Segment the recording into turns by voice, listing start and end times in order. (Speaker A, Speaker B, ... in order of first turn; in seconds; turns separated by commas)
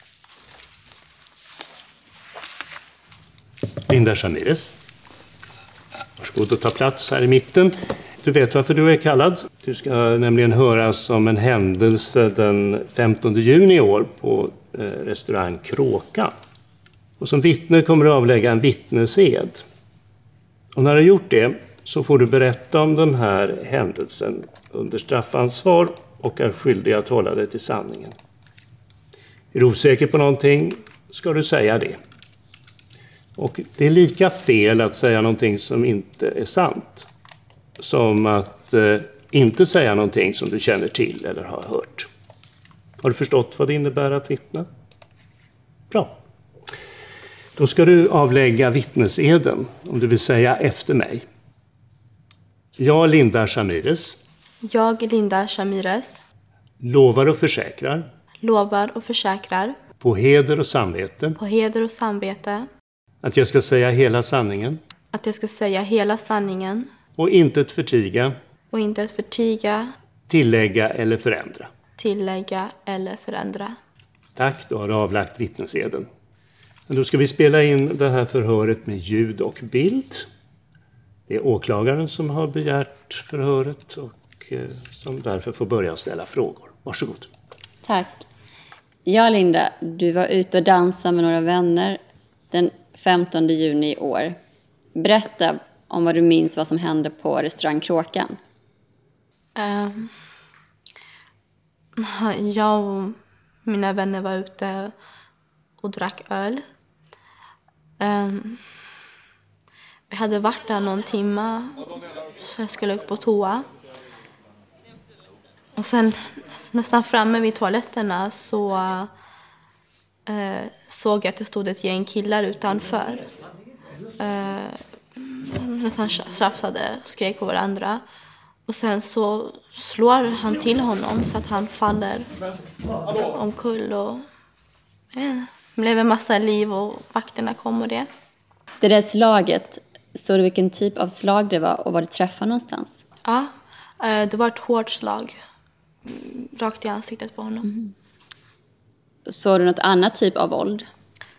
Speaker A: 3.9-4.8, Speaker A: 6.2-16.3, Speaker A: 17.2-19.6, Speaker A: 20.7-28.1, Speaker A: 29.5-32.0, Speaker A: 33.4-37.1, Speaker A: 37.8-42.1, Speaker A: 43.0-44.7, Speaker A: 47.5-51.2, Speaker A: 52.8-54.2, Speaker B: 54.6-56.2, Speaker A: 56.8-58.0, Speaker B: 58.4-59.8, Speaker A: 60.0-61.4, Speaker B: 61.4-62.7, Speaker A: 63.2-64.8, Speaker B: 65.1-66.9, Speaker A: 67.2-68.3, Speaker B: 68.7-69.9, Speaker A: 70.3-71.7, Speaker B: 72.0-73.7, Speaker A: 74.3-76.1, Speaker A: 76.9-80.3, Speaker A: 81.3-87.3, Speaker C: 87.8-88.2, Speaker C: 89.0-92.0, Speaker C: 92.5-94.3, Speaker C: 94.9-98.4, Speaker B: 99.5-100.1, Speaker B: 102.0-104.9, Speaker B: 105.8-106.6, Speaker B: 108.0-108.6, Speaker B: 110.1-113.7, Speaker B: 115.8-119.1, Speaker B: 120.3-123.3, Speaker B: 124.2-128.0, Speaker B: 128.7-132.3, Speaker B: 133.2-134.2, Speaker B: 135.1-138.1, Speaker C: 138.8-143.0, Speaker B: 143.2-145.3, Speaker B: 146.0-147.7, Speaker C: 149.2-150.8